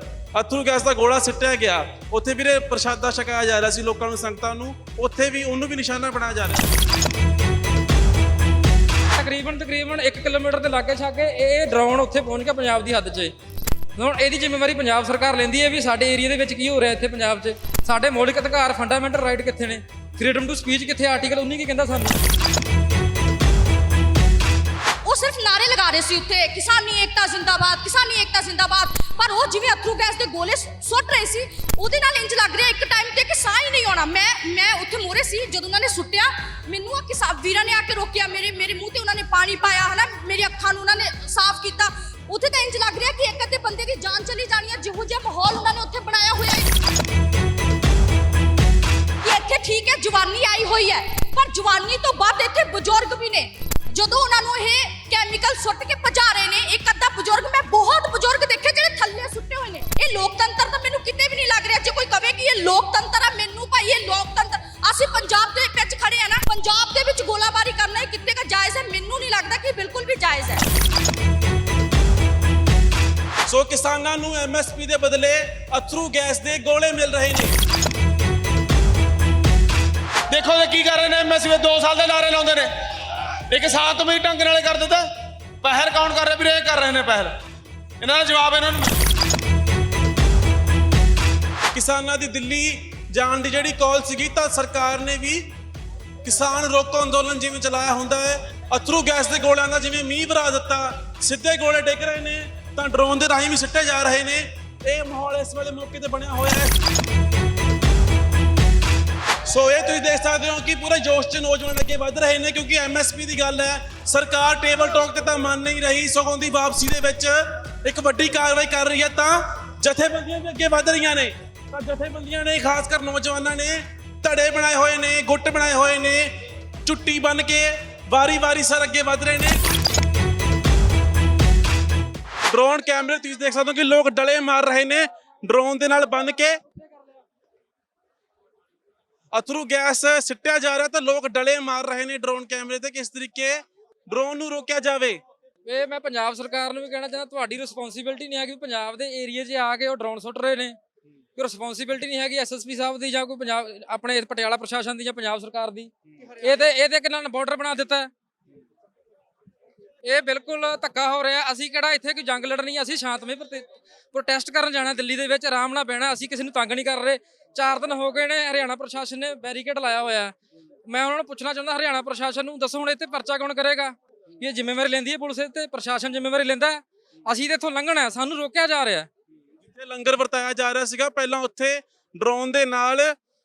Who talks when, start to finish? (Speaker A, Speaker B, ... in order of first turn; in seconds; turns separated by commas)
Speaker A: 0.3-6.7, Speaker B: 9.2-13.3, Speaker B: 14.0-22.2, Speaker C: 25.0-46.7, Speaker C: 49.2-70.7, Speaker A: 73.5-77.6, Speaker D: 80.3-85.1, Speaker D: 85.6-87.3, Speaker D: 88.0-88.9, Speaker A: 91.7-95.5, Speaker A: 96.2-106.8, Speaker A: 109.5-126.3, Speaker A: 126.8-129.6, Speaker A: 132.5-136.6, Speaker A: 139.3-145.2, Speaker B: 145.7-150.8, Speaker B: 151.4-158.1, Speaker B: 160.0-170.3, Speaker B: 170.9-179.1, Speaker A: 179.7-183.2